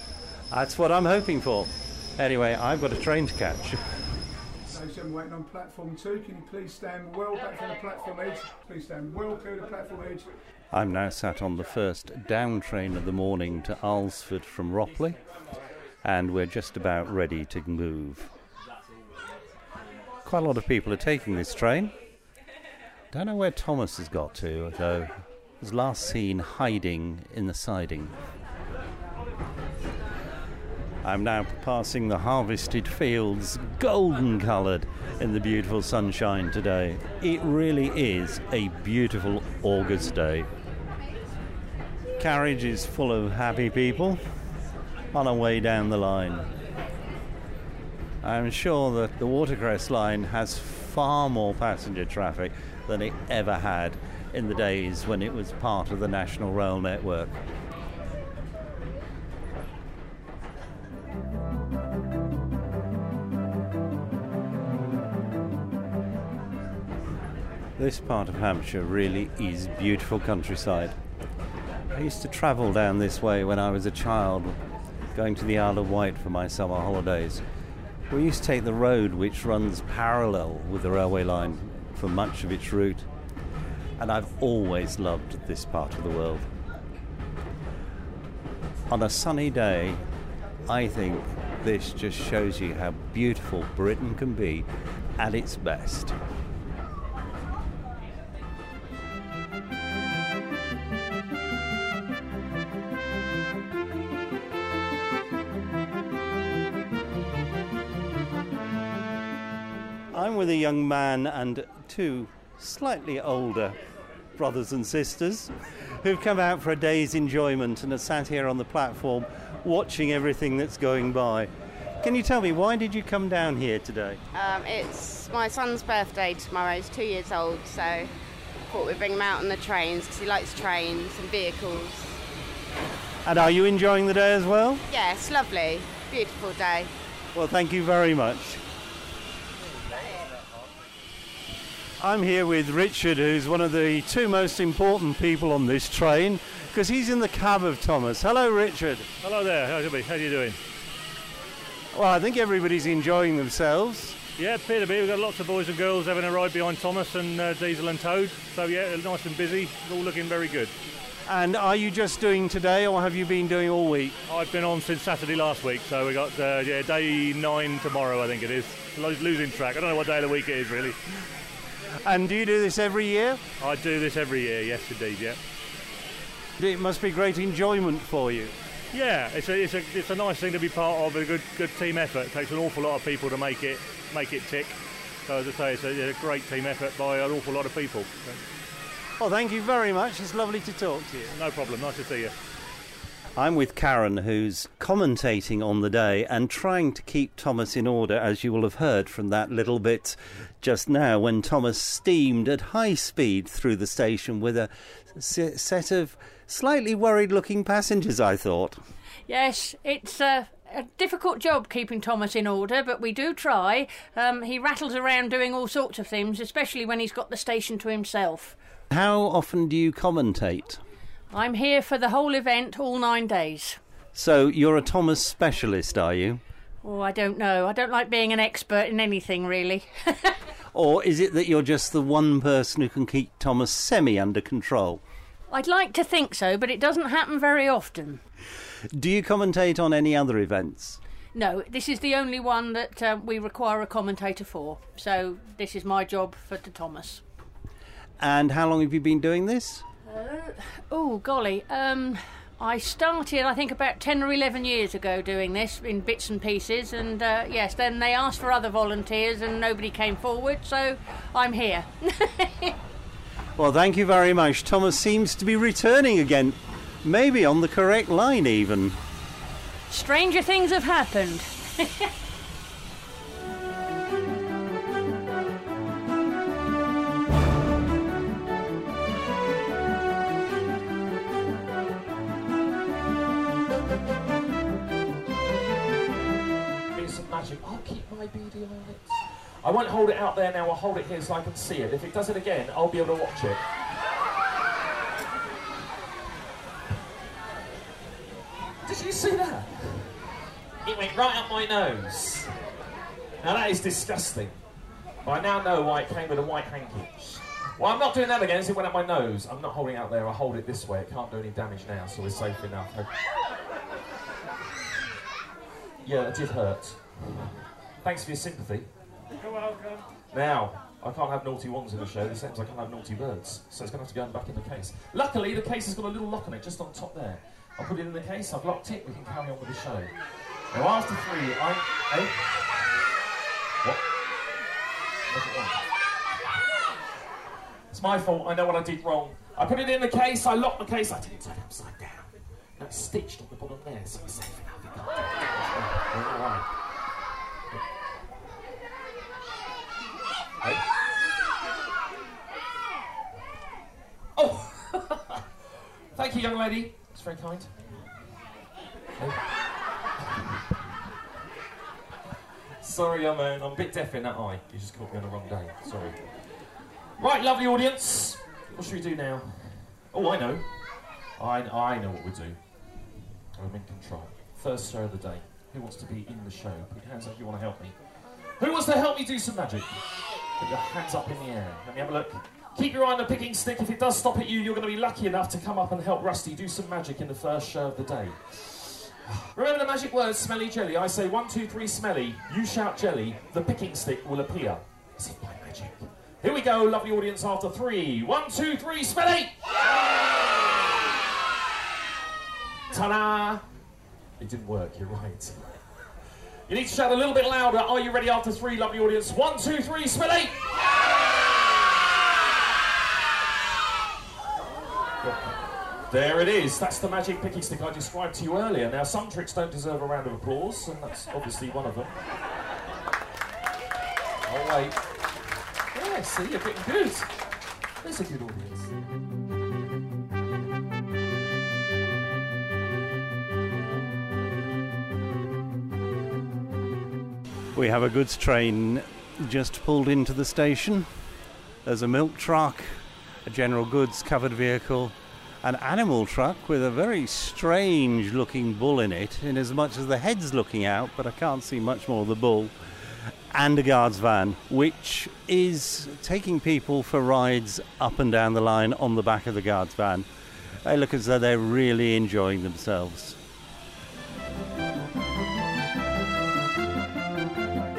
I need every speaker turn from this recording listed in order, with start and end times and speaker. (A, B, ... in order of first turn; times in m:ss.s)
0:00.5-0:03.8 A
0:04.7-0:10.3 B
0:10.7-0:15.2 A
0:16.0-0:18.3 A
0:20.2-0:21.9 A
0:23.1-0:28.1 A
0:31.0-0:40.5 A
0:42.2-0:44.2 A
0:45.1-0:46.5 A
0:48.2-0:57.4 A
1:07.8-1:11.0 A
1:11.9-1:14.6 A
1:15.1-1:17.4 A
1:18.1-1:23.1 A
1:24.0-1:26.5 A
1:28.9-1:30.0 A
1:30.7-1:36.2 A
1:50.1-1:53.8 A
1:54.4-2:01.5 A
2:02.0-2:04.2 A
2:04.3-2:08.1 C
2:08.7-2:12.2 C
2:13.2-2:14.8 A
2:14.9-2:16.9 C
2:17.3-2:18.6 A
2:22.0-2:29.1 A
2:29.2-2:30.6 D
2:31.9-2:34.2 A
2:34.4-2:40.7 D
2:41.2-2:44.2 A
2:44.3-2:51.0 D
2:52.0-2:53.4 A
2:53.6-2:55.4 D
2:56.6-2:58.5 A
2:58.9-3:08.4 D
3:09.2-3:11.3 A
3:11.3-3:12.3 D
3:13.4-3:28.8 A
3:29.3-3:38.6 E
3:38.9-3:40.8 A
3:41.3-3:43.8 E
3:44.1-3:46.4 A
3:46.8-3:50.4 E
3:50.7-3:55.0 A
3:55.5-3:58.2 E
3:58.9-4:01.0 A
4:01.3-4:07.2 E
4:08.2-4:09.8 A
4:10.1-4:22.8 E
4:23.6-4:29.0 A
4:29.9-4:32.1 E
4:46.9-4:53.6 F
4:58.8-5:00.2 F
5:00.8-5:02.5 F
5:03.4-5:04.6 F
5:05.2-5:13.1 F
5:16.0-5:18.9 F
5:20.3-5:30.1 F
5:30.7-5:32.6 F
5:35.3-5:35.8 F
5:37.9-5:46.7 F
5:54.4-5:55.4 F
5:56.1-5:58.1 F
6:02.8-6:06.2 F
6:07.2-6:10.7 F
6:11.4-6:12.6 F
6:13.6-6:18.0 F
6:18.6-6:20.0 F
6:20.6-6:39.6 F
6:42.9-6:43.6 F
6:44.4-6:45.8 F
6:46.7-6:50.6 F
6:55.2-6:55.6 F
6:56.1-7:02.2 F
7:04.4-7:05.0 F
7:05.9-7:07.3 F
7:08.0-7:08.9 F
7:17.7-7:21.1 A
7:21.8-7:32.7 A
7:33.5-7:40.3 A
7:40.8-7:43.4 A